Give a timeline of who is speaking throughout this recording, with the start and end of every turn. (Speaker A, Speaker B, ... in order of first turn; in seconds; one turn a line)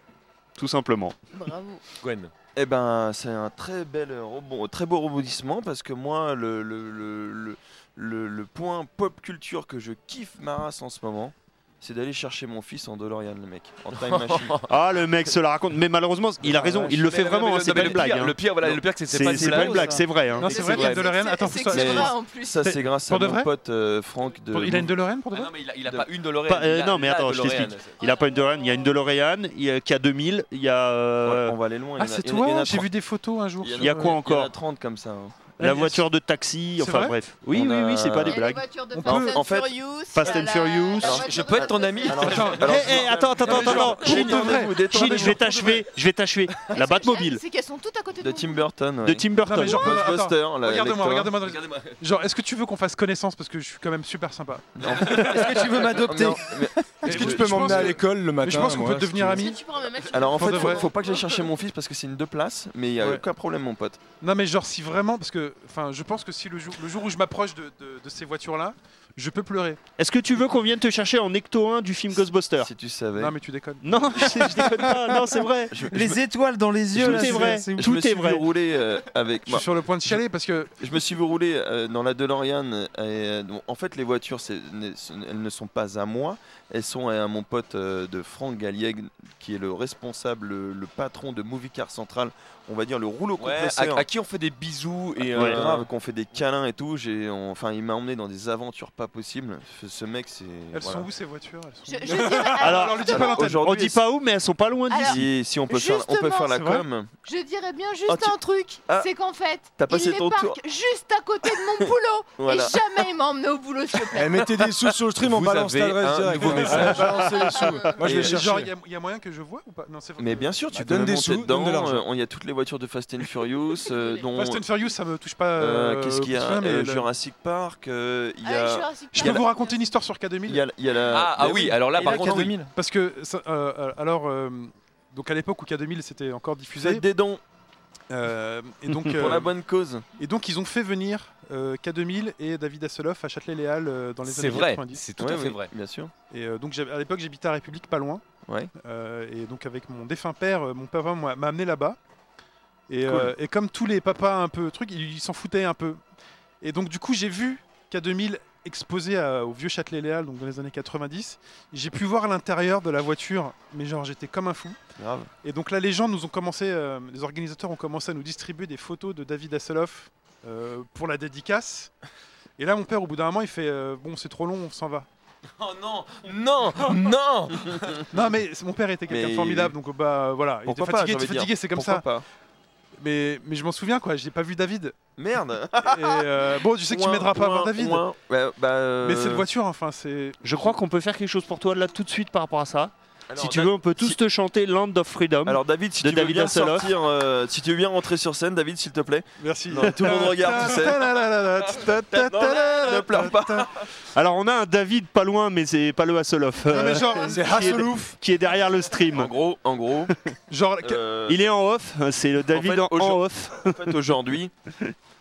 Speaker A: 0.6-1.2
Speaker B: 1.3-1.8
Speaker C: 2.0-2.3
Speaker D: 2.5-14.6
Speaker C: 13.9-14.7
Speaker A: 14.7-20.6
Speaker C: 16.6-20.0
Speaker E: 19.4-20.1
Speaker B: 20.3-22.7
Speaker F: 20.4-23.5
Speaker C: 20.6-21.0
Speaker D: 21.7-24.9
Speaker F: 24.5-25.5
Speaker C: 25.3-28.0
Speaker A: 26.4-31.6
Speaker G: 28.0-28.7
Speaker D: 31.2-32.9
Speaker F: 31.9-34.2
Speaker D: 33.6-35.5
Speaker A: 33.7-34.5
Speaker F: 35.6-36.0
Speaker A: 35.6-38.6
Speaker F: 36.8-37.1
Speaker D: 37.5-38.5
Speaker B: 38.2-42.4
Speaker F: 38.9-39.4
Speaker D: 39.0-40.4
Speaker A: 40.1-41.2
Speaker D: 41.0-45.5
Speaker C: 41.1-43.1
Speaker F: 42.2-45.8
Speaker A: 42.6-47.4
Speaker B: 46.7-48.6
Speaker D: 48.2-51.3
Speaker A: 49.0-50.0
Speaker F: 49.4-54.8
Speaker C: 51.4-52.0
Speaker D: 54.8-58.0
Speaker C: 54.9-55.5
Speaker E: 55.0-57.1
Speaker H: 57.0-59.5
Speaker F: 57.0-59.6
Speaker G: 59.2-61.5
Speaker D: 60.0-64.0
Speaker F: 60.2-60.9
Speaker F: 63.0-63.2
Speaker F: 64.2-69.8
Speaker A: 70.0-72.7
Speaker D: 72.6-73.4
Speaker F: 73.2-74.8
Speaker A: 73.8-75.9
Speaker D: 75.7-76.2
Speaker E: 75.9-77.9
Speaker D: 76.9-80.2
Speaker A: 76.9-78.4
Speaker F: 79.5-80.7
Speaker D: 80.8-94.0
Speaker C: 93.4-95.9
Speaker D: 95.2-101.1
Speaker A: 95.3-95.7
Speaker F: 100.7-103.6
Speaker B: 101.8-103.5
Speaker A: 102.6-105.2
Speaker D: 103.1-104.0
Speaker B: 104.9-106.7
Speaker D: 105.0-107.1
Speaker F: 106.5-106.8
Speaker B: 107.2-114.5
Speaker D: 108.1-109.1
Speaker D: 109.8-110.6
Speaker D: 111.6-113.0
Speaker H: 114.1-118.7
Speaker C: 115.2-117.2
Speaker F: 116.4-120.7
Speaker G: 117.2-118.0
Speaker D: 118.0-118.5
Speaker D: 120.2-124.7
Speaker H: 120.7-122.0
Speaker G: 123.8-124.3
Speaker F: 124.3-127.1
Speaker D: 125.5-129.5
Speaker B: 128.4-129.9
Speaker F: 129.1-130.6
Speaker D: 130.4-132.6
Speaker C: 131.1-132.5
Speaker E: 131.9-132.7
Speaker F: 132.7-137.0
Speaker D: 136.8-137.4
Speaker F: 138.1-139.5
Speaker D: 139.1-140.1
Speaker F: 140.2-145.1
Speaker C: 144.2-145.7
Speaker D: 145.2-146.1
Speaker F: 146.3-148.2
Speaker D: 148.5-148.7
Speaker F: 148.8-152.0
Speaker F: 152.9-156.0
Speaker D: 153.1-153.3
Speaker F: 156.6-164.8
Speaker D: 165.0-165.3
Speaker F: 165.4-171.9
Speaker F: 172.6-175.1
Speaker C: 175.6-178.0
Speaker D: 176.7-178.2
Speaker F: 178.1-182.1
Speaker D: 179.1-179.8
Speaker D: 180.6-182.2
Speaker F: 183.0-185.0
Speaker D: 185.2-189.5
Speaker F: 185.8-188.0
Speaker F: 189.0-190.7
Speaker A: 190.4-196.9
Speaker D: 193.3-194.2
Speaker D: 195.4-201.2
Speaker F: 199.4-203.7
Speaker D: 201.8-203.8
Speaker A: 204.1-209.3
Speaker F: 206.7-207.8
Speaker H: 207.2-208.2
Speaker D: 209.1-210.1
Speaker F: 210.5-211.0
Speaker D: 210.8-211.4
Speaker A: 211.3-214.0
Speaker D: 212.5-214.5